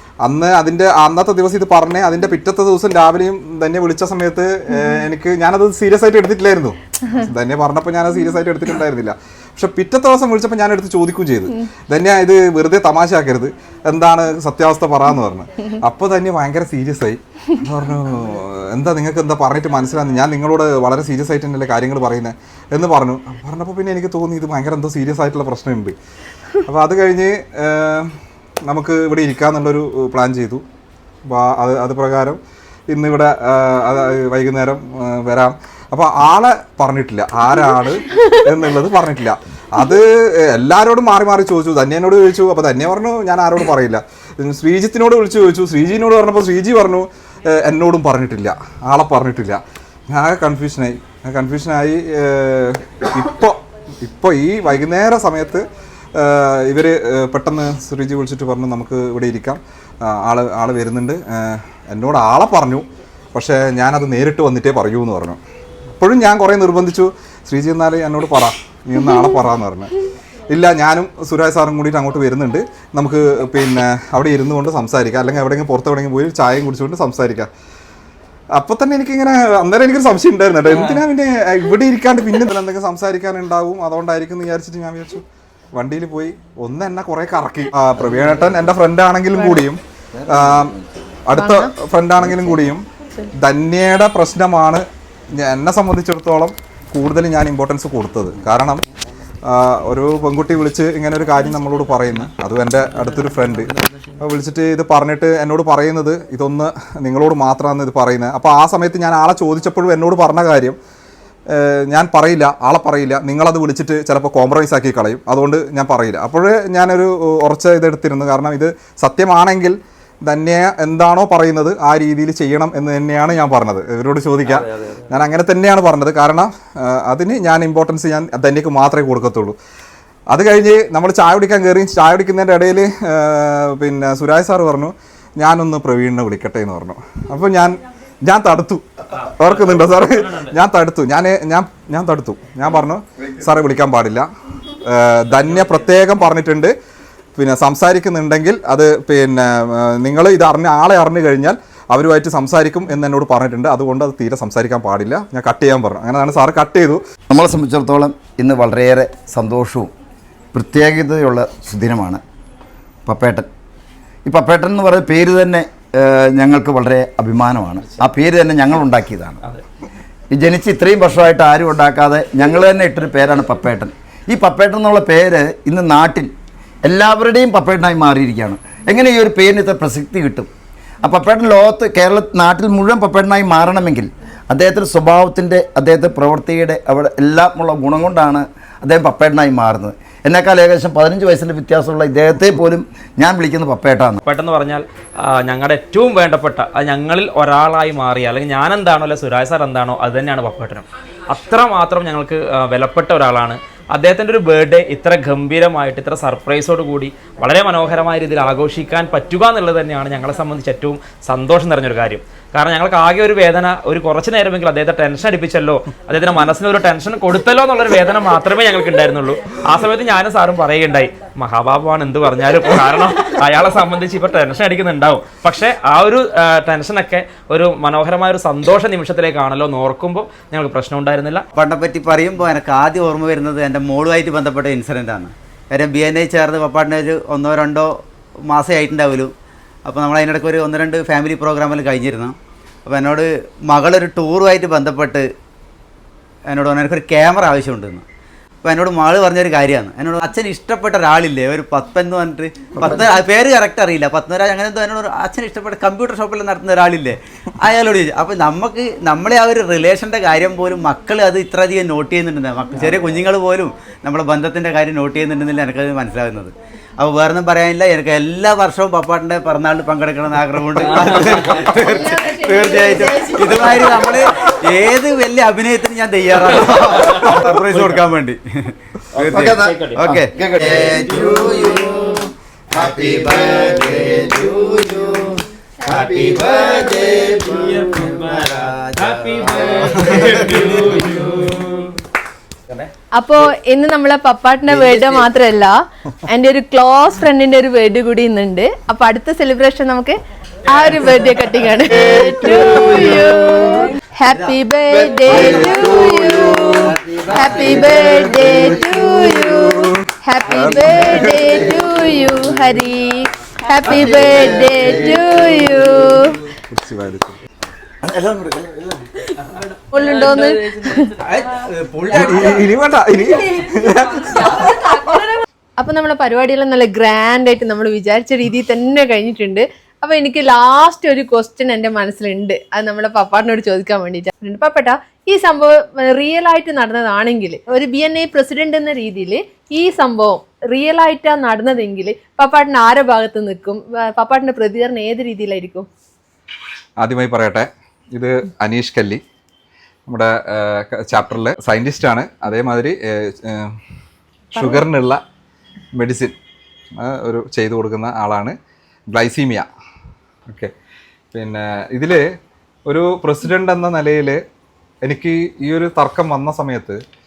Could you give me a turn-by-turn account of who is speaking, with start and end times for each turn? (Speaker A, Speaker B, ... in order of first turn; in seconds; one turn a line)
Speaker A: 0.2-25.9
Speaker B: 4.7-5.0
Speaker A: 26.7-28.1
Speaker A: 28.7-30.6
Speaker A: 31.3-55.6
Speaker B: 38.1-38.4
Speaker A: 56.2-65.4
Speaker A: 66.0-69.9
Speaker A: 70.5-77.5
Speaker A: 78.5-90.8
Speaker C: 88.0-88.7
Speaker B: 89.3-89.7
Speaker C: 90.2-90.9
Speaker A: 91.3-92.8
Speaker B: 91.3-91.7
Speaker C: 92.2-92.7
Speaker A: 93.4-94.8
Speaker A: 95.3-98.8
Speaker A: 99.5-110.8
Speaker A: 111.5-129.6
Speaker D: 124.5-125.0
Speaker A: 130.3-146.7
Speaker D: 139.1-140.6
Speaker A: 147.4-157.0
Speaker C: 157.3-159.9
Speaker C: 160.5-162.2
Speaker C: 163.1-163.5
Speaker C: 164.2-169.4
Speaker C: 170.3-176.3
Speaker C: 176.8-180.5
Speaker C: 181.0-194.2
Speaker D: 194.2-231.5
Speaker E: 231.6-237.9
Speaker E: 238.5-239.3
Speaker E: 239.9-245.3
Speaker E: 246.5-248.1
Speaker E: 248.6-281.0
Speaker C: 252.8-253.1
Speaker D: 270.8-271.6
Speaker B: 271.7-274.3
Speaker D: 276.5-278.1
Speaker D: 279.1-280.2
Speaker C: 279.3-288.1
Speaker D: 280.8-281.4
Speaker E: 282.9-283.9
Speaker D: 285.9-291.6
Speaker E: 288.3-291.2
Speaker C: 289.4-290.5
Speaker B: 293.2-316.4
Speaker E: 294.7-295.2
Speaker A: 302.2-303.3
Speaker E: 305.1-305.7
Speaker C: 305.2-309.1
Speaker A: 305.8-306.7
Speaker E: 307.4-308.1
Speaker A: 308.8-309.7
Speaker A: 310.5-311.8
Speaker C: 311.4-311.9
Speaker C: 313.8-315.9
Speaker A: 316.7-317.4
Speaker C: 318.0-319.1
Speaker B: 319.9-321.1
Speaker E: 321.3-322.7
Speaker A: 322.1-325.0
Speaker B: 324.1-345.9
Speaker A: 347.0-349.2
Speaker A: 350.1-353.8
Speaker B: 354.6-354.9
Speaker A: 354.6-355.2
Speaker A: 355.9-356.4
Speaker A: 357.0-358.6
Speaker A: 359.1-359.7
Speaker A: 361.3-362.2
Speaker A: 362.9-364.4
Speaker A: 365.0-367.0